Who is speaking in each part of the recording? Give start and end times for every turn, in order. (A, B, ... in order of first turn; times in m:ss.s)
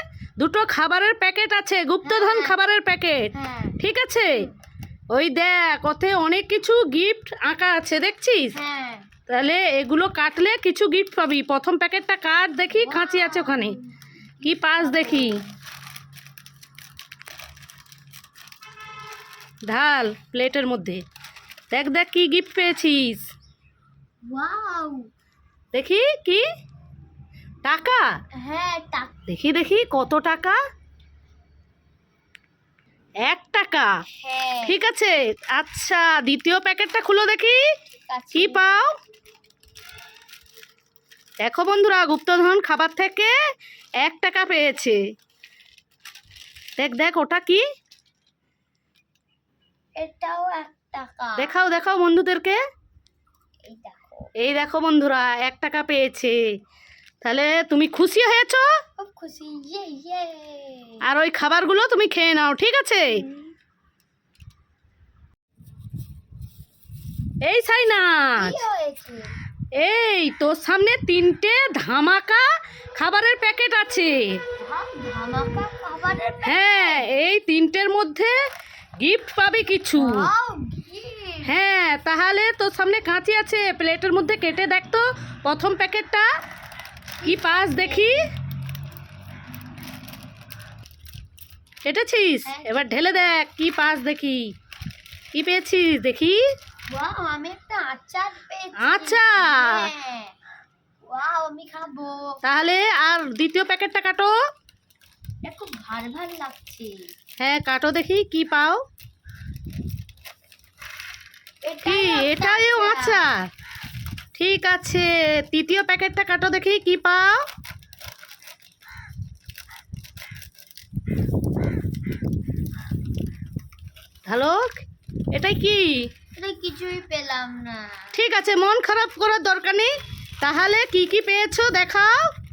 0:00.4-0:04.5 A
0:02.0-0:02.6 B
0:03.3-0:04.5 B
0:05.1-0:08.6 A
0:08.5-0:09.1 B
0:09.3-0:13.8 A
0:12.7-0:13.9 B
0:14.4-0:15.4 A
0:14.5-0:15.5 B
0:19.7-0:21.0 A
0:21.7-0:23.3 A
0:24.2-0:25.1 B
0:25.7-0:26.4 A
0:27.6-0:28.0 A
0:28.4-0:29.3 B
0:29.3-0:30.6 A
0:33.2-0:33.9 A
0:34.2-0:34.8 B
0:34.6-0:37.6 A
0:38.0-0:38.8 B
0:38.3-0:38.9 A
0:41.4-0:43.3 A
0:44.0-0:45.0 A
0:46.8-0:47.6 A
0:50.0-0:51.6 B
0:51.4-0:52.6 A
0:53.6-0:54.3 B
0:54.4-0:56.4 A
0:57.2-0:58.6 A
0:59.0-1:01.0 B
1:01.0-1:03.2 A
1:03.1-1:03.5 B
1:07.4-1:08.5 A
1:08.4-1:09.3 B
1:09.7-1:14.4 A
1:14.6-1:17.0 B
1:16.4-1:18.3 A
1:19.0-1:20.3 A
1:19.9-1:21.6 B
1:21.4-1:26.3 A
1:27.2-1:28.2 B
1:27.2-1:28.2 A
1:31.8-1:34.5 A
1:32.4-1:33.3 B
1:35.3-1:36.4 A
1:36.9-1:40.3 B
1:38.8-1:39.8 A
1:41.0-1:42.4 B
1:42.4-1:44.3 A
1:45.4-1:47.1 B
1:47.4-1:48.8 A
1:51.6-1:53.3 B
1:51.8-1:53.3 A
1:54.4-1:57.4 A
2:04.3-2:04.7 A
2:05.3-2:06.1 A
2:06.3-2:08.2 B
2:08.1-2:12.3 A